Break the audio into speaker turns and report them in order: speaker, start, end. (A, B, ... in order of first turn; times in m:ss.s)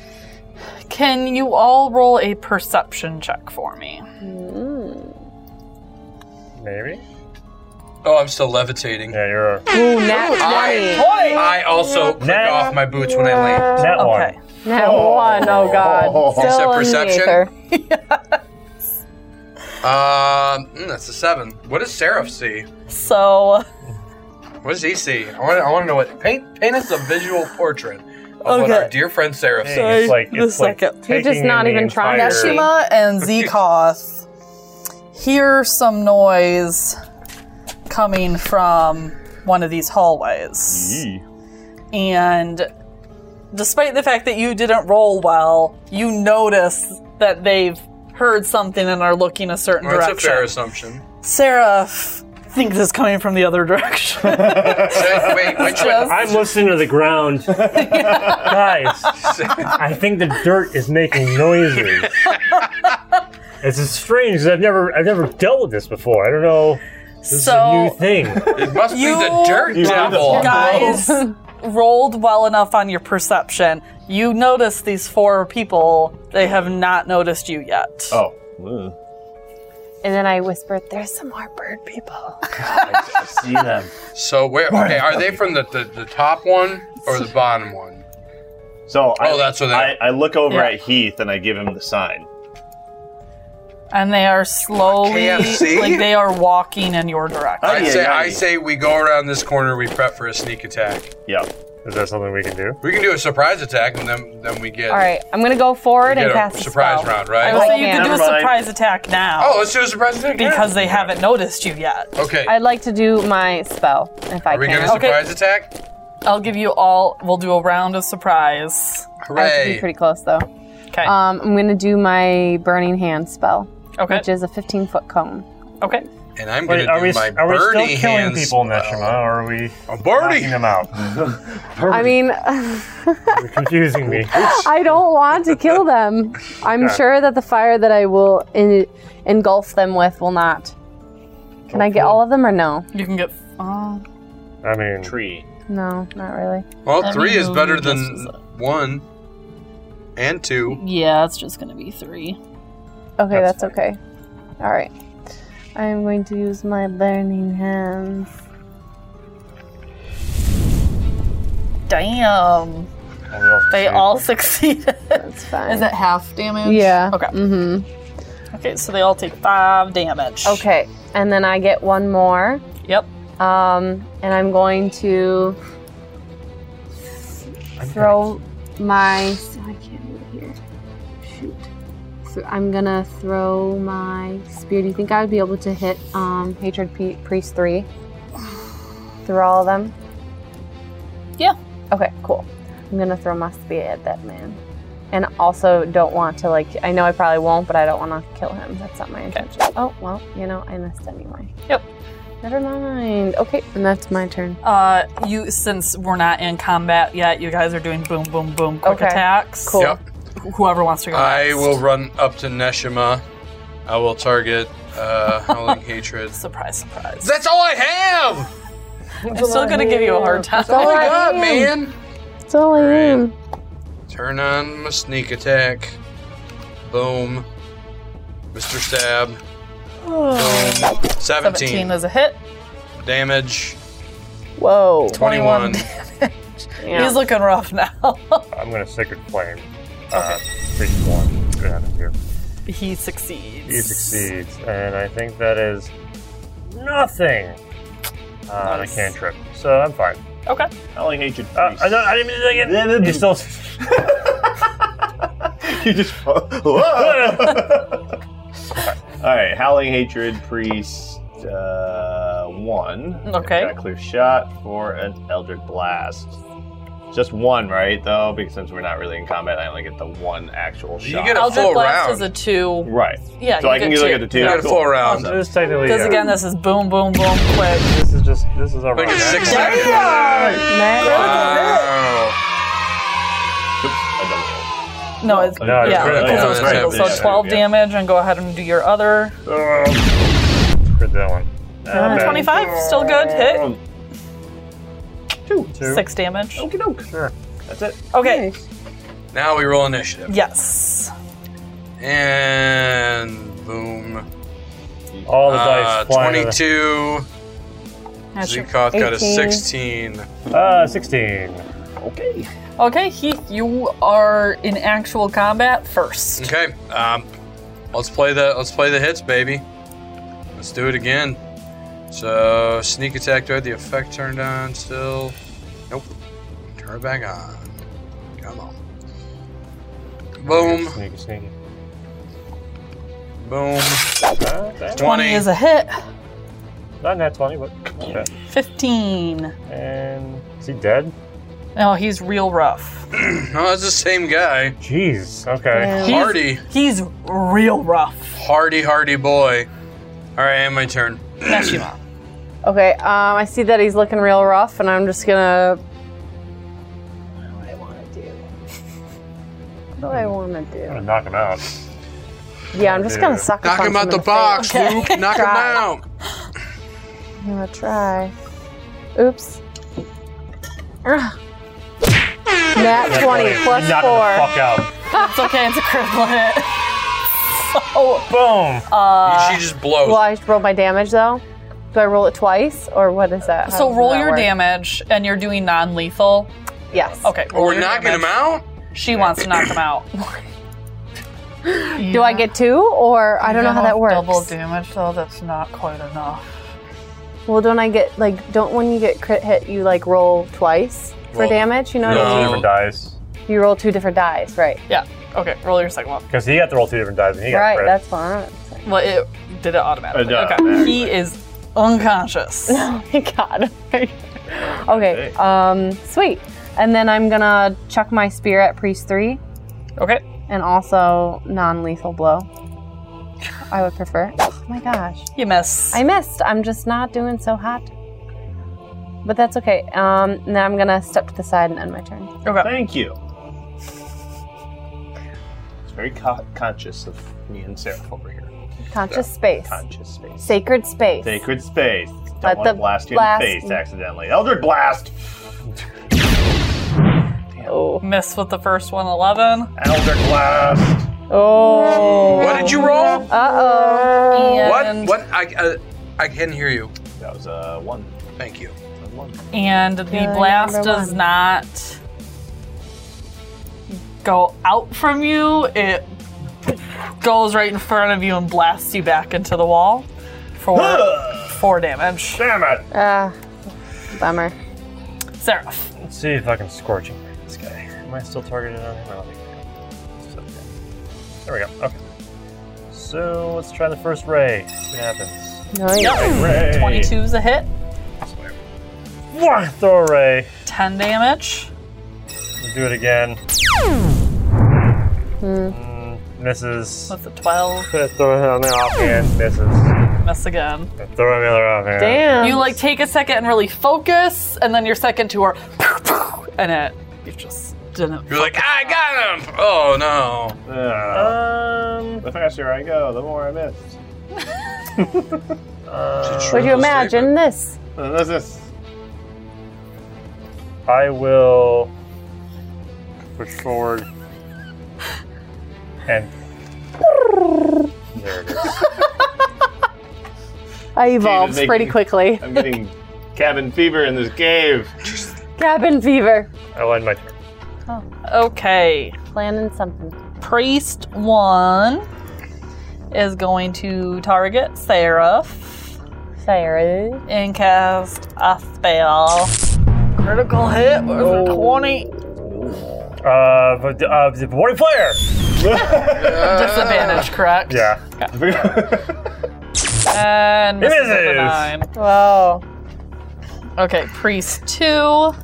0:00.9-0:04.0 A
0:04.2-0:05.1 B
0:06.6-0:07.0 C
0:08.0-0:09.2 D
0:09.1-0:09.7 C
0:09.7-0:11.1 B
0:10.1-0:13.9 D
0:10.4-0:11.5 A
0:12.2-0:12.8 C
0:13.8-0:14.4 C
0:13.9-0:14.4 A
0:14.6-0:17.5 B
0:14.7-0:16.6 E
0:16.3-0:17.4 D
0:17.7-0:18.4 A
0:19.8-0:22.7 D
0:22.9-0:23.7 A
0:24.6-0:30.1 D
0:28.4-0:28.9 A
0:29.6-0:32.7 C
0:29.6-0:31.0 A
0:31.1-0:32.7 B
0:32.1-0:34.2 A
0:35.1-0:37.0 A
0:37.9-0:41.0 A
0:40.7-0:41.2 E
0:41.9-0:42.7 A
0:43.5-0:50.5 A
0:49.8-0:51.0 D
0:51.2-0:56.4 A
0:54.3-0:55.0 E
0:54.4-0:54.9 C
0:54.8-0:56.5 D
0:55.9-1:02.1 C
0:57.6-0:58.6 A
0:59.2-0:59.7 D
1:03.6-1:08.6 C
1:07.3-1:08.0 A
1:08.4-1:08.6 E
1:08.5-1:11.0 D
1:08.9-1:18.2 A
1:09.7-1:11.1 E
1:10.3-1:11.3 B
1:18.1-1:19.0 E
1:20.0-1:22.6 B
1:22.6-1:23.9 E
1:24.2-1:28.0 D
1:24.7-1:25.3 E
1:28.9-1:32.3 E
1:29.2-1:30.0 D
1:30.5-1:30.8 A
1:33.9-1:38.0 A
1:34.9-1:36.2 D
1:37.6-1:38.4 E
1:37.6-1:41.1 D
1:41.8-1:42.8 C
1:42.8-1:45.1 D
1:44.9-1:48.3 B
1:46.0-1:47.7 D
1:47.4-1:49.7 A
1:47.5-1:48.6 E
1:49.4-1:51.1 D
1:50.4-1:52.1 A
1:52.2-1:52.6 D
1:52.5-1:55.1 B
1:54.5-1:55.7 D
1:54.8-1:55.3 A
1:56.2-1:59.1 A
1:59.2-1:59.9 D
1:59.4-2:00.5 B
2:01.0-2:05.5 B
2:04.0-2:04.3 A
2:05.8-2:06.1 A
2:06.4-2:09.2 D
2:06.7-2:11.1 C
2:09.9-2:10.6 D
2:11.1-2:11.4 E
2:11.8-2:12.1 C
2:11.8-2:13.4 B
2:13.3-2:14.6 C
2:14.2-2:20.7 B
2:21.7-2:22.2 C
2:21.7-2:22.9 B
2:22.9-2:24.0 A
2:24.6-2:25.1 C
2:25.0-2:25.5 E
2:25.7-2:26.7 B
2:26.8-2:29.0 D
2:27.0-2:28.3 A
2:30.2-2:30.8 D
2:30.7-2:32.4 A
2:33.2-2:34.0 B
2:33.3-2:33.8 C
2:34.6-2:34.9 B
2:35.8-2:38.3 B
2:41.9-2:42.9 A
2:43.3-2:44.3 C
2:43.7-2:47.4 A
2:45.2-2:45.9 B
2:46.6-2:47.9 B
2:48.5-2:50.6 A
2:50.4-2:52.6 B
2:53.4-2:55.6 B
2:57.8-2:58.3 C
2:57.8-3:00.6 B
3:01.2-3:01.7 B
3:02.3-3:07.9 B
3:09.2-3:09.9 B
3:11.9-3:14.6 B
3:15.1-3:21.5 B
3:22.4-3:24.6 B
3:24.6-3:31.8 A
3:28.8-3:30.0 B
3:31.1-3:33.2 D
3:33.9-3:36.4 D
3:35.5-3:35.8 A
3:36.3-3:37.3 A
3:37.2-3:38.5 D
3:39.3-3:41.3 A
3:39.3-3:41.7 B
3:39.4-3:39.8 C
3:40.6-3:41.9 D
3:42.5-3:43.3 B
3:42.7-3:43.2 D
3:44.1-3:46.0 D
3:46.9-3:47.5 D
3:48.5-3:49.4 D
3:50.0-3:52.4 A
3:50.3-3:52.0 D
3:53.0-3:53.8 D
3:54.6-3:55.2 B
3:55.1-3:56.3 A
3:55.1-3:55.9 D
3:56.8-3:57.2 B
3:56.8-3:58.5 A
3:58.5-4:02.1 C
4:00.1-4:00.4 A
4:02.7-4:04.3 A
4:03.7-4:05.9 C
4:06.7-4:07.6 C
4:08.5-4:10.2 C
4:08.6-4:09.1 A
4:10.9-4:14.5 E
4:11.6-4:13.9 C
4:15.6-4:18.0 E
4:17.0-4:17.7 C
4:19.2-4:26.4 E
4:23.2-4:23.8 A
4:27.1-4:31.8 E
4:31.0-4:32.3 D
4:31.3-4:34.8 A
4:32.8-4:35.5 E
4:34.3-4:35.4 D
4:35.0-4:36.3 C
4:35.8-4:37.9 A
4:35.8-4:36.3 B
4:37.8-4:40.0 C
4:39.0-4:42.4 D
4:39.4-4:40.7 A
4:39.5-4:41.6 E
4:40.6-4:41.9 B
4:43.8-4:44.7 E
4:45.2-4:49.4 A
4:45.2-4:47.7 E
4:45.6-4:47.2 C
4:45.8-4:47.4 D
4:49.5-4:50.0 E
4:50.9-4:52.6 C
4:51.9-4:52.8 B
4:51.9-4:53.7 A
4:52.5-4:53.8 E
4:55.5-4:55.8 E
4:55.7-4:56.1 C
4:55.8-4:56.7 A
4:56.6-4:57.1 E
4:57.7-4:58.0 E
4:58.1-4:58.5 A
4:58.2-4:58.6 B
4:59.3-5:00.3 D
5:00.3-5:01.1 A
5:02.0-5:04.3 D
5:05.1-5:05.4 E
5:05.3-5:06.6 C
5:05.5-5:07.3 D
5:08.4-5:08.7 A
5:08.4-5:10.3 D
5:08.9-5:09.6 B
5:10.5-5:11.7 C
5:12.0-5:12.5 E
5:12.8-5:16.5 A
5:16.4-5:17.3 D
5:17.9-5:19.6 D
5:20.6-5:21.4 D
5:22.1-5:25.4 D
5:26.8-5:27.7 D
5:28.4-5:28.7 D
5:30.4-5:31.0 D
5:30.4-5:31.5 C
5:33.4-5:34.2 D
5:34.4-5:35.1 C
5:35.0-5:35.5 D
5:35.0-5:36.0 A
5:37.0-5:38.3 C
5:38.5-5:39.5 A
5:39.7-5:41.1 C
5:41.8-5:43.0 A
5:43.1-5:44.8 D
5:44.8-5:46.0 C
5:45.7-5:46.4 B
5:46.0-5:46.6 D
5:46.0-5:48.4 A
5:48.4-5:49.7 D
5:50.4-5:51.8 D
5:51.4-5:52.0 A
5:52.6-5:55.8 B
5:57.5-5:58.4 B
6:00.0-6:01.0 B
6:00.9-6:01.6 C
6:02.7-6:05.8 B
6:02.8-6:03.5 C
6:03.6-6:06.0 D
6:04.5-6:05.4 A
6:07.4-6:08.3 B
6:09.2-6:09.6 B
6:11.0-6:11.4 B
6:12.7-6:14.6 B
6:12.9-6:14.9 C
6:15.1-6:16.8 A
6:17.5-6:19.6 A
6:18.3-6:18.9 C
6:19.2-6:20.3 D
6:20.0-6:24.5 B
6:23.7-6:26.5 A
6:26.9-6:27.2 B
6:27.2-6:28.4 A
6:27.5-6:28.7 D
6:28.9-6:30.4 A
6:31.7-6:34.5 B
6:31.9-6:32.5 A
6:33.4-6:36.4 A
6:37.5-6:42.7 B
6:41.3-6:42.7 D
6:42.0-6:43.1 C
6:43.5-6:44.8 B
6:44.9-6:46.3 A
6:46.3-6:48.0 C
6:47.5-6:48.9 B
6:48.8-6:52.8 A
6:50.1-6:51.2 E
6:52.7-6:59.4 B
6:54.6-6:55.4 E
7:00.0-7:00.2 A
7:00.5-7:02.5 B
7:03.7-7:05.3 B
7:05.4-7:06.0 A
7:05.9-7:07.9 B
7:09.2-7:12.3 B
7:12.4-7:12.8 A
7:12.6-7:13.2 E
7:15.9-7:18.5 E
7:18.9-7:19.8 B
7:19.7-7:20.6 E
7:20.4-7:21.5 B
7:21.2-7:25.2 E
7:22.4-7:23.8 B
7:27.7-7:28.0 B
7:28.0-7:29.7 A
7:29.8-7:31.1 E
7:31.3-7:34.7 B
7:31.6-7:35.2 A
7:32.2-7:33.3 D
7:34.6-7:36.9 D
7:37.2-7:38.1 E
7:38.4-7:38.7 D
7:39.0-7:39.4 E
7:39.5-7:42.0 A
7:40.1-7:41.2 B
7:43.9-7:46.1 A
7:47.2-7:50.1 A
7:50.6-7:52.4 A
7:50.8-7:51.5 E
7:52.4-7:52.9 C
7:52.9-7:53.4 B
7:54.1-7:54.6 B
7:55.4-7:55.9 A
7:56.0-7:59.6 C
8:00.2-8:00.6 C
8:01.4-8:02.0 C
8:02.9-8:05.6 C
8:05.7-8:06.5 B
8:06.0-8:07.7 A
8:06.2-8:07.1 E
8:08.2-8:08.5 C
8:09.3-8:10.5 C
8:10.7-8:11.7 A
8:12.6-8:13.4 C
8:15.4-8:15.8 B
8:15.7-8:17.2 C
8:17.1-8:17.9 A
8:17.8-8:19.9 C
8:20.2-8:20.9 A
8:21.0-8:22.7 C
8:22.0-8:22.8 B
8:22.4-8:29.0 A
8:28.3-8:30.6 D
8:30.7-8:31.4 E
8:31.1-8:32.2 C
8:32.2-8:34.0 E
8:35.0-8:35.4 E
8:35.9-8:37.0 C
8:36.2-8:37.3 D
8:36.5-8:37.8 B
8:38.0-8:38.7 E
8:40.9-8:41.9 C
8:43.4-8:44.1 C
8:46.1-8:46.3 C
8:48.2-8:48.8 C
8:51.0-8:52.7 B
8:51.1-8:54.9 E
8:55.6-8:56.5 B
8:56.7-8:57.3 C
8:58.2-8:59.2 A
8:59.3-9:00.2 B
9:00.4-9:02.1 A
9:03.1-9:06.0 A
9:06.4-9:07.2 B
9:07.3-9:09.5 A
9:10.2-9:12.1 A
9:11.3-9:13.1 E
9:13.2-9:15.2 C
9:15.6-9:16.5 E
9:16.1-9:17.3 D
9:16.2-9:18.3 A
9:17.7-9:18.0 C
9:18.3-9:19.2 E
9:20.1-9:21.9 A
9:20.8-9:21.7 C
9:21.9-9:22.6 B
9:23.8-9:25.4 A